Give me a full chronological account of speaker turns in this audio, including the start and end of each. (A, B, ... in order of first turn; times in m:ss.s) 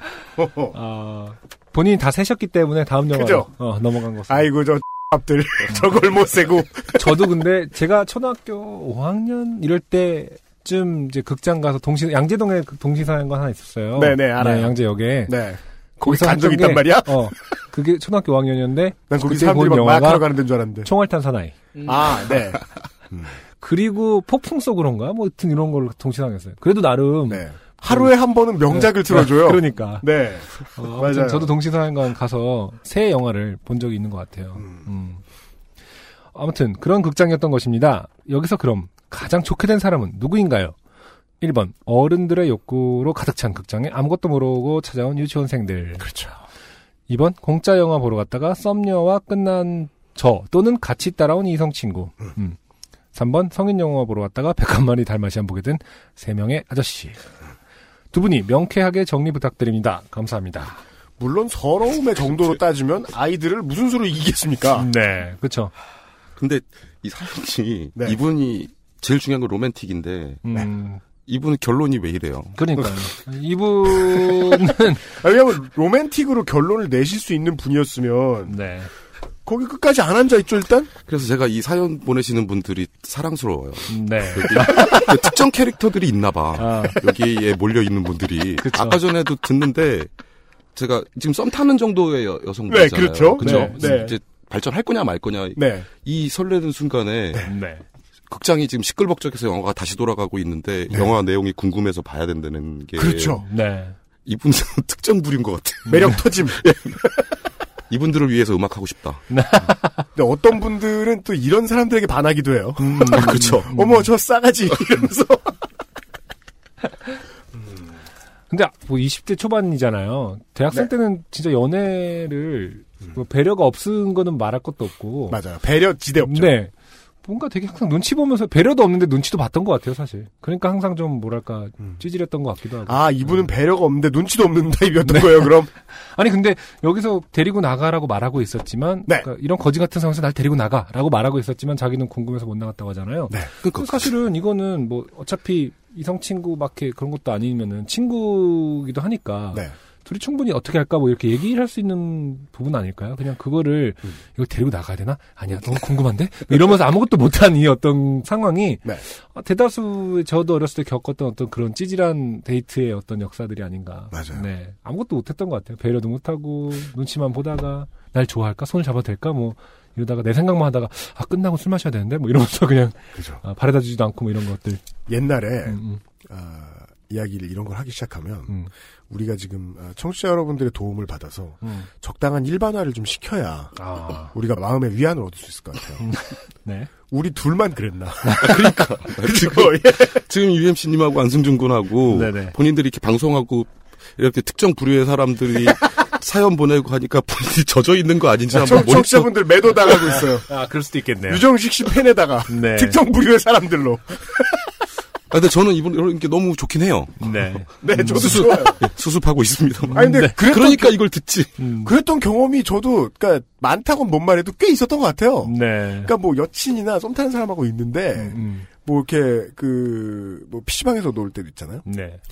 0:00.4-0:00.7 A
0:00.7-0:04.5 B
0:03.1-0:03.5 A
0:04.3-0:07.3 A
0:06.9-0:15.4 B
0:14.0-0:17.4 A
0:16.0-0:20.3 B
0:19.1-0:20.9 A
0:20.8-0:21.6 B
0:21.8-0:23.3 A
0:23.6-0:28.1 B
0:27.3-0:31.6 A
0:28.7-0:30.1 B
0:30.8-0:35.2 B
0:36.3-0:40.8 B
0:41.4-0:46.1 B
0:46.0-0:46.4 A
0:47.1-0:52.6 B
0:53.1-0:57.2 B
0:58.1-1:00.8 B
1:01.2-1:04.9 A
1:04.8-1:05.7 B
1:06.4-1:10.4 C
1:10.4-1:11.0 B
1:11.3-1:12.6 C
1:12.6-1:15.0 B
1:14.2-1:14.5 A
1:15.1-1:18.5 A
1:18.5-1:18.9 B
1:19.4-1:20.9 A
1:21.1-1:30.1 C
1:23.9-1:25.1 B
1:24.6-1:25.3 A
1:26.6-1:27.0 B
1:28.6-1:29.0 B
1:30.8-1:37.5 C
1:32.7-1:34.2 A
1:33.4-1:34.1 B
1:35.6-1:35.9 A
1:37.5-1:37.8 B
1:38.3-1:43.4 C
1:43.0-1:43.4 A
1:43.4-1:44.0 B
1:44.2-1:46.8 C
1:45.9-1:47.2 A
1:45.9-1:46.2 B
1:47.9-1:49.2 C
1:49.3-1:50.1 B
1:50.1-1:55.5 A
1:52.8-1:54.1 B
1:53.0-1:53.7 C
1:58.5-2:05.4 B
2:05.3-2:06.6 A
2:06.2-2:06.7 B
2:07.2-2:13.5 B
2:12.8-2:15.7 A
2:15.0-2:54.8 B
2:23.6-2:24.0 C
2:44.1-2:44.4 A
2:55.1-2:58.6 A
2:55.7-2:56.0 B
2:59.1-3:06.1 A
3:01.6-3:01.9 B
3:03.8-3:04.3 B
3:06.0-3:06.9 B
3:07.1-3:10.2 A
3:08.2-3:08.8 B
3:08.5-3:19.3 C
3:12.1-3:12.5 B
3:18.5-3:20.5 A
3:20.0-3:21.4 B
3:21.2-3:24.6 A
3:22.5-3:23.0 B
3:25.3-3:27.3 C
3:27.2-3:28.5 B
3:27.8-3:28.8 A
3:28.0-3:31.5 C
3:29.9-3:30.4 B
3:29.9-3:31.0 A
3:31.6-3:31.9 B
3:31.8-3:41.8 A
3:35.4-3:36.1 B
3:38.2-3:38.7 B
3:41.8-3:42.2 B